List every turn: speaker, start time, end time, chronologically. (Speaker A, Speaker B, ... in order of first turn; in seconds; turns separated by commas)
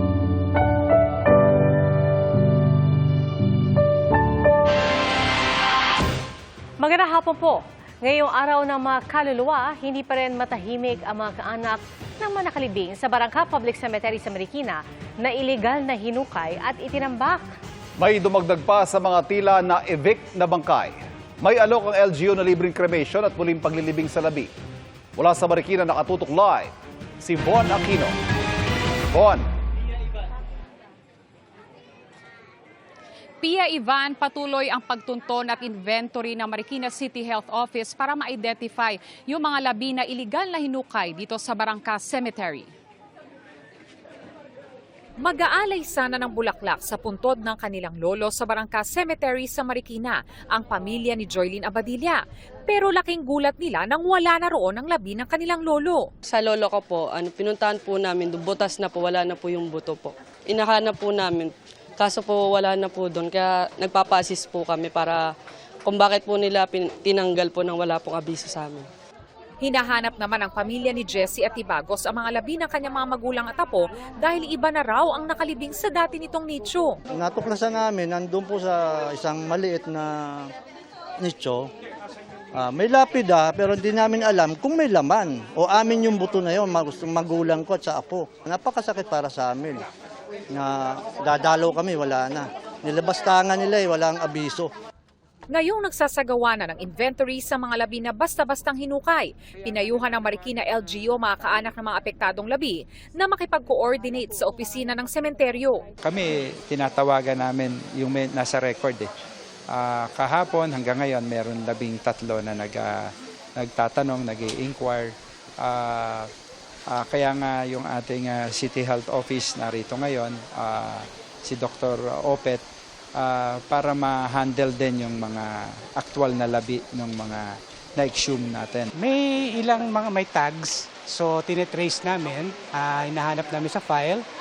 Speaker A: 6.8-17.5, Speaker B: 18.0-24.5, Speaker B: 25.2-28.1, Speaker B: 29.1-29.4, Speaker C: 33.4-42.7, Speaker D: 45.2-56.0, Speaker E: 56.3-65.2, Speaker E: 65.8-68.9, Speaker D: 69.6-77.0, Speaker F: 77.1-80.5, Speaker F: 81.2-81.7, Speaker F: 82.5-89.8, Speaker F: 90.5-94.7, Speaker D: 95.5-105.8, Speaker G: 106.0-109.1, Speaker G: 109.7-116.3, Speaker G: 116.9-122.6, Speaker G: 123.1-128.9, Speaker H: 129.0-134.2